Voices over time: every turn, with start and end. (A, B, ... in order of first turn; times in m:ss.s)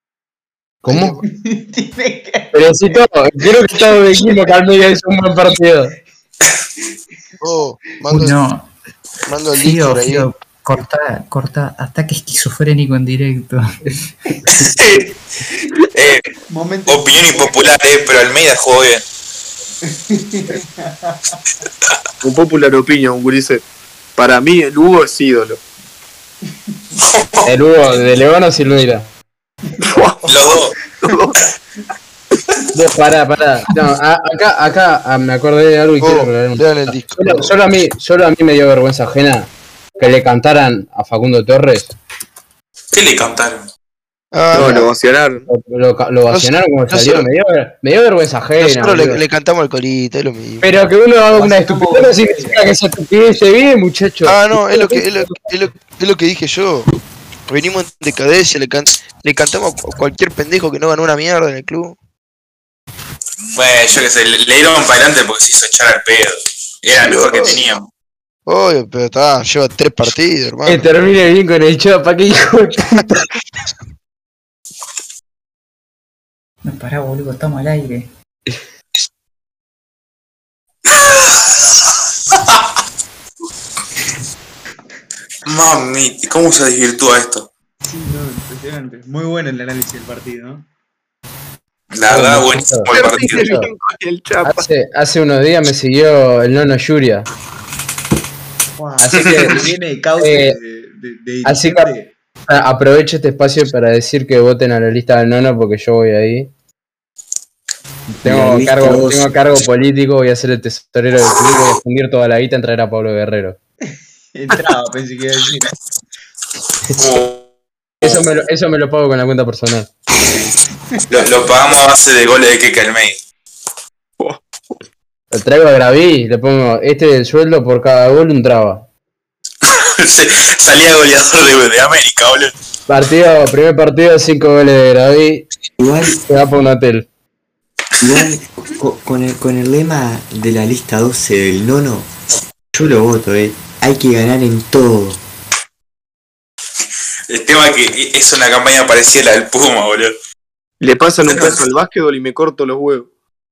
0:00.8-0:01.2 A
0:01.2-0:02.6 B
0:02.5-0:06.0 A
0:07.4-0:08.4 C
0:08.1-0:08.7 D
0:09.3-0:10.3 C
0:09.6-0:14.0 D
0:14.5-0:15.1 E
0:15.9-0:16.3 E
0:16.5-0:17.8 B
0:16.9-0:19.0 E
0:19.9-0:21.4 B
0:22.2-0:23.6 F
0:24.2-0:25.6 F
0:27.0-0:27.5 E
0:27.4-0:29.1 A
0:29.8-0:31.4 F
0:30.3-0:30.7 E
0:32.7-0:41.9 A
0:36.0-0:37.6 C
0:42.9-0:43.7 E
0:44.3-0:44.9 C
0:44.5-0:45.5 F
0:45.5-0:49.2 A
0:46.3-0:47.3 C
0:48.6-0:50.7 C
0:50.6-0:55.4 A
0:51.3-0:52.7 B
0:54.2-0:56.9 C
0:57.5-1:02.0 C
1:03.5-1:07.9 E
1:07.0-1:07.6 C
1:08.5-1:10.9 C
1:10.7-1:13.2 A
1:16.6-1:18.1 D
1:20.9-1:21.7 E
1:22.3-1:22.6 E
1:25.5-1:27.5 E
1:27.8-1:30.7 B
1:31.9-1:33.5 E
1:32.1-1:33.7 A
1:32.9-1:34.6 F
1:34.4-1:37.3 A
1:38.8-1:42.1 B
1:39.0-1:39.7 A
1:40.2-1:40.6 A
1:41.4-1:41.9 A
1:42.5-1:46.5 A
1:48.1-1:49.3 G
1:48.2-1:53.6 A
1:53.9-1:55.7 B
1:57.0-1:57.5 E
1:58.0-1:58.3 E
1:58.0-1:59.9 A
2:01.1-2:03.2 E
2:05.3-2:08.9 A
2:09.7-2:12.5 E
2:12.9-2:15.5 A
2:15.8-2:16.2 G
2:16.3-2:17.1 A
2:18.0-2:22.1 G
2:22.7-2:25.2 G
2:27.3-2:30.1 E
2:30.8-2:33.1 F
2:31.3-2:31.6 E